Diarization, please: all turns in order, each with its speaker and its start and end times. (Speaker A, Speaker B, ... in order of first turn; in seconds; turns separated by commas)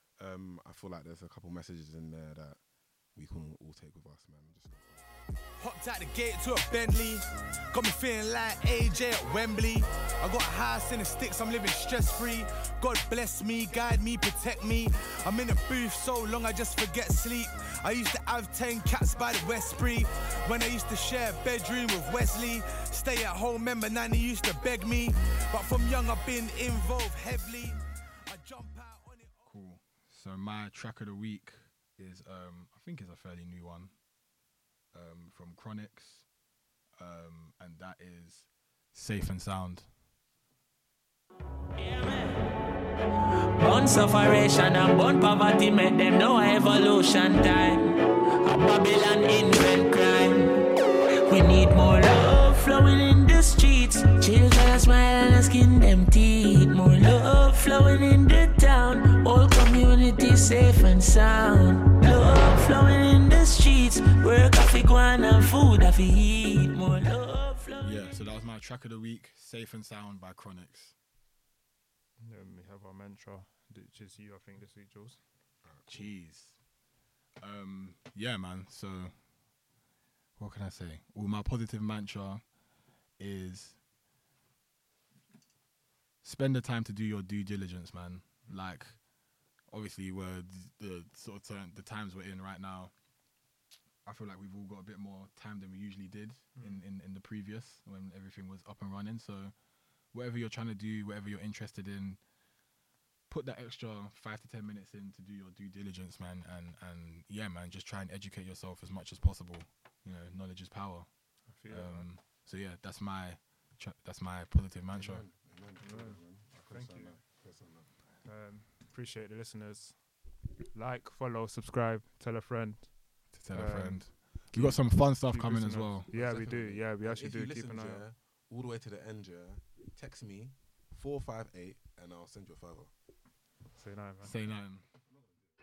Speaker A: 0.2-2.6, Speaker A: 3.1-5.0, Speaker B: 5.6-29.5, Speaker C: 29.4-34.0, Speaker C: 34.9-36.3, Speaker C: 37.0-39.9, Speaker D: 41.8-42.3, Speaker D: 43.6-50.7, Speaker D: 51.3-67.9, Speaker C: 67.8-71.0, Speaker E: 72.2-75.2, Speaker A: 75.6-76.1, Speaker C: 75.9-76.6, Speaker C: 77.4-79.2, Speaker C: 80.4-82.6, Speaker C: 83.2-83.8, Speaker C: 86.2-89.1, Speaker C: 89.7-92.9, Speaker C: 94.0-99.5, Speaker E: 96.5-96.8, Speaker C: 100.1-102.2, Speaker C: 103.3-115.2, Speaker E: 111.5-112.1, Speaker A: 114.9-117.9, Speaker E: 115.8-117.1, Speaker E: 118.2-120.2, Speaker E: 120.7-128.0, Speaker C: 123.3-126.1, Speaker A: 126.1-132.9, Speaker E: 133.8-134.3, Speaker C: 134.2-134.8